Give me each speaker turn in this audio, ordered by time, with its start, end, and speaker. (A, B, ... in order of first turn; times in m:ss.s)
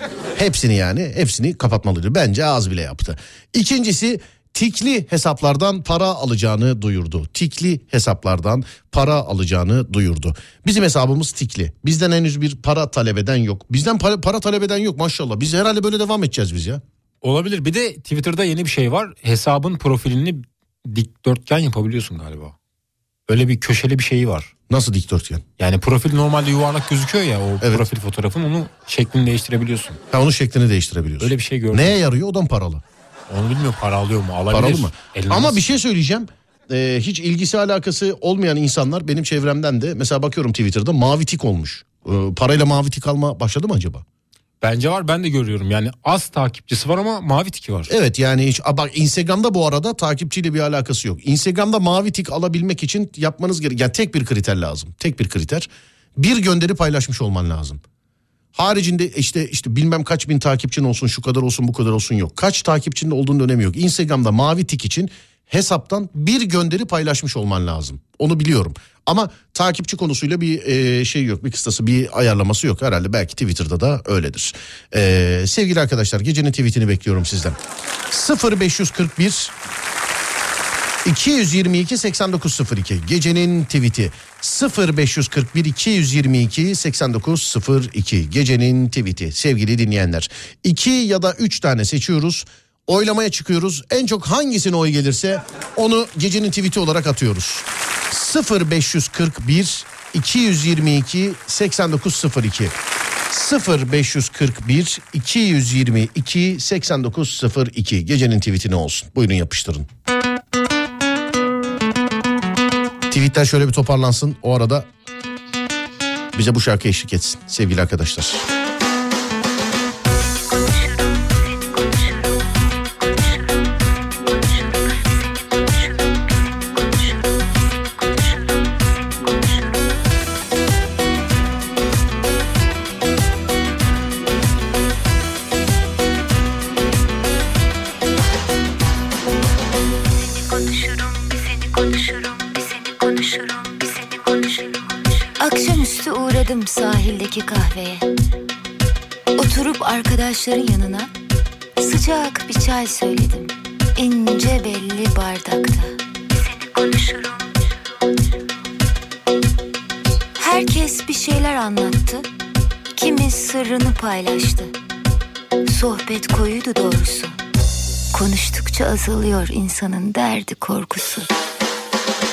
0:00.4-0:16.8 A
0:17.2-0:22.6 B
0:23.3-0:24.5 B
0:24.7-0:25.4 A
0:25.6-0:30.0 B
0:30.1-0:32.8 A
0:31.2-0:32.0 B
0:33.3-0:35.7 B
0:34.5-0:44.0 A
0:44.6-0:47.9 B
0:47.9-0:57.8 A
0:58.6-1:17.6 A
1:18.1-1:19.5 A
1:21.0-1:42.8 A
1:43.3-1:49.9 A
1:53.1-1:54.9 A
1:56.3-1:58.4 A
2:20.5-2:21.4 C
2:22.0-2:24.5 C
2:25.4-2:28.1 C
2:29.4-2:31.1 C
2:31.8-2:37.5 C
2:40.4-2:42.3 C
2:43.0-2:44.7 C
2:45.7-2:47.4 C
2:48.1-2:51.3 C